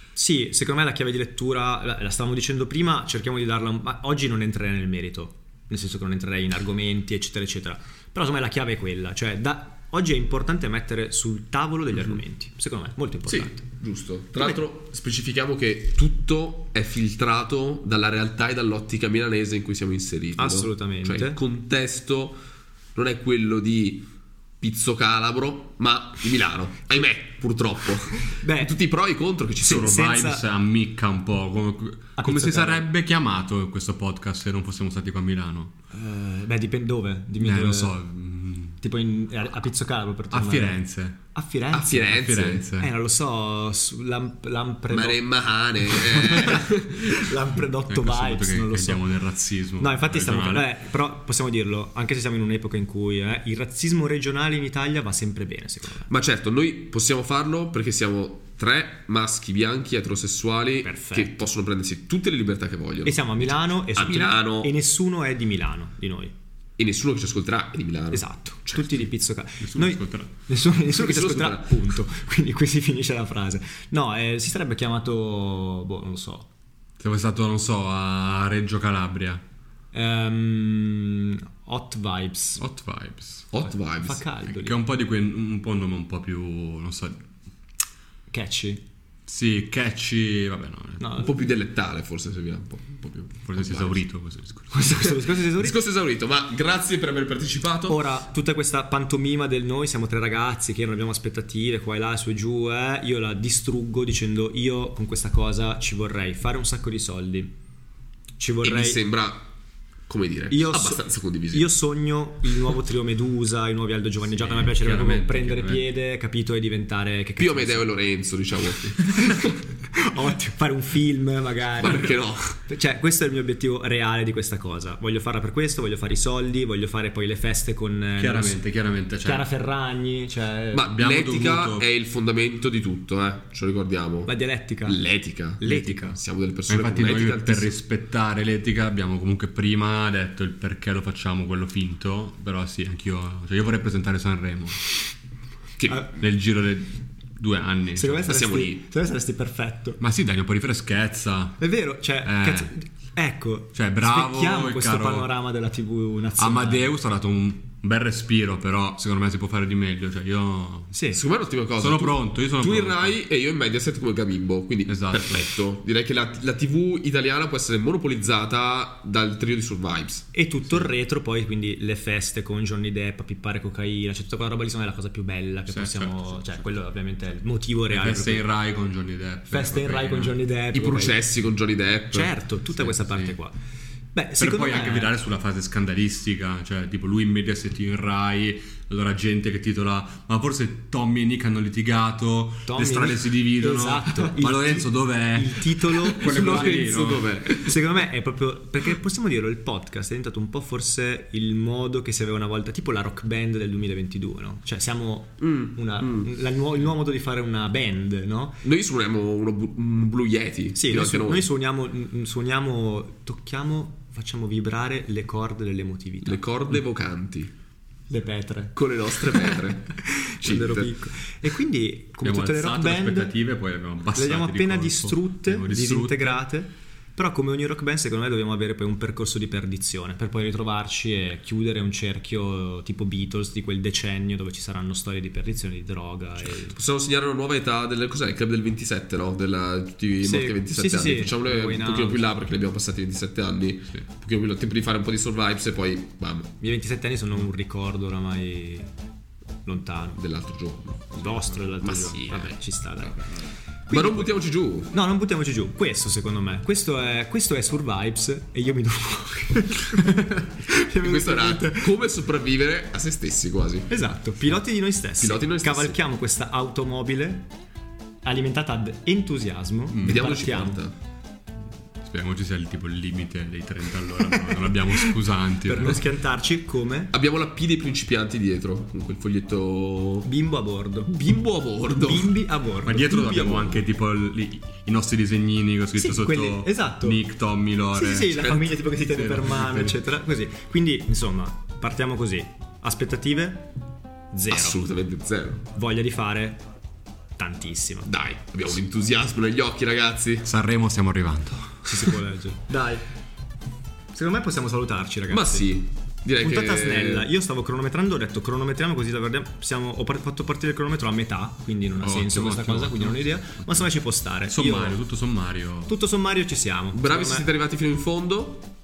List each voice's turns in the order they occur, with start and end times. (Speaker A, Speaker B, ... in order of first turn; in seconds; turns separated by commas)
Speaker A: 0.1-13.6, Speaker B: 11.9-12.2, Speaker B: 13.3-22.4, Speaker A: 20.4-21.4, Speaker B: 22.9-24.1, Speaker B: 24.6-29.9, Speaker A: 28.3-28.8, Speaker C: 29.6-35.7, Speaker A: 29.6-30.4, Speaker A: 32.2-32.9, Speaker A: 35.9-38.0, Speaker C: 37.4-38.8, Speaker A: 38.8-42.2, Speaker C: 40.3-41.2, Speaker B: 41.7-42.7, Speaker C: 42.1-42.9, Speaker A: 42.8-45.4, Speaker B: 44.9-47.4, Speaker A: 45.9-49.1, Speaker C: 47.9-50.7, Speaker A: 49.8-56.1, Speaker B: 56.1-64.7, Speaker A: 60.8-61.4, Speaker A: 63.0-66.3, Speaker B: 66.8-68.9, Speaker A: 68.1-76.5, Speaker C: 69.6-70.3, Speaker B: 70.9-72.0, Speaker C: 77.0-79.4, Speaker A: 79.9-82.6, Speaker C: 82.6-83.5, Speaker B: 83.5-84.2, Speaker A: 83.6-84.8, Speaker C: 84.5-87.2, Speaker A: 88.3-88.8, Speaker C: 89.3-91.0, Speaker A: 91.0-91.4, Speaker B: 91.2-94.0, Speaker C: 93.4-95.0, Speaker A: 94.7-95.8, Speaker B: 95.0-98.0, Speaker A: 97.9-107.5, Speaker A: 108.4-109.0, Speaker B: 108.6-109.5, Speaker B: 110.1-111.7, Speaker A: 110.5-118.0, Speaker C: 114.2-115.8, Speaker B: 117.4-119.5, Speaker A: 119.9-128.6, Speaker B: 121.8-122.6, Speaker C: 128.2-129.4, Speaker A: 129.2-130.9, Speaker B: 130.7-137.7, Speaker C: 130.8-131.9, Speaker A: 134.2-136.2, Speaker C: 135.6-136.0, Speaker C: 136.7-144.8, Speaker B: 145.8-146.0, Speaker A: 145.9-146.1, Speaker C: 146.2-148.4, Speaker A: 147.9-150.0, Speaker B: 148.3-148.8, Speaker C: 150.0-151.6, Speaker A: 151.6-156.9, Speaker C: 152.2-152.7, Speaker C: 153.7-155.3, Speaker C: 156.4-160.9, Speaker A: 160.9-161.2, Speaker B: 161.1-170.9, Speaker C: 161.8-163.2, Speaker C: 164.9-165.4, Speaker A: 170.3-178.5, Speaker C: 175.7-176.5, Speaker C: 177.9-180.4, Speaker A: 179.5-181.2, Speaker B: 180.7-182.3, Speaker A: 182.1-183.5, Speaker C: 182.8-183.3, Speaker A: 184.1-185.1, Speaker C: 184.4-197.3, Speaker A: 192.7-196.8, Speaker B: 196.1-197.8, Speaker A: 197.5-208.6, Speaker B: 205.4-206.3, Speaker B: 208.6-211.5, Speaker A: 210.7-216.4, Speaker B: 216.2-217.5, Speaker A: 218.1-223.3, Speaker B: 218.7-221.0, Speaker C: 222.2-226.4, Speaker A: 224.1-236.7, Speaker B: 236.4-246.5, Speaker A: 240.2-242.3, Speaker A: 246.6-248.9, Speaker A: 249.6-250.2, Speaker B: 250.2-253.1, Speaker A: 251.1-253.3, Speaker A: 253.9-254.3, Speaker B: 253.9-254.9, Speaker A: 254.9-261.9, Speaker B: 261.0-263.9, Speaker A: 263.9-267.5, Speaker B: 265.2-266.0, Speaker A: 268.2-270.8, Speaker C: 269.9-270.3, Speaker B: 270.0-270.9, Speaker C: 272.0-276.0, Speaker A: 274.2-277.1, Speaker B: 277.1-280.3, Speaker A: 280.2-281.1, Speaker B: 281.1-282.3, Speaker A: 281.9-283.9, Speaker C: 282.8-290.0, Speaker A: 285.9-287.2, Speaker A: 287.9-293.7, Speaker B: 288.3-288.8, Speaker A: 294.3-294.8, Speaker B: 294.5-295.6, Speaker A: 295.7-296.6, Speaker A: 297.4-298.1, Speaker B: 298.0-300.5, Speaker C: 300.4-302.1, Speaker A: 301.8-303.0, Speaker A: 304.1-305.8, Speaker B: 305.3-307.3, Speaker A: 306.4-315.0, Speaker C: 312.0-313.8, Speaker C: 314.5-315.9, Speaker A: 315.9-317.5, Speaker B: 316.9-318.7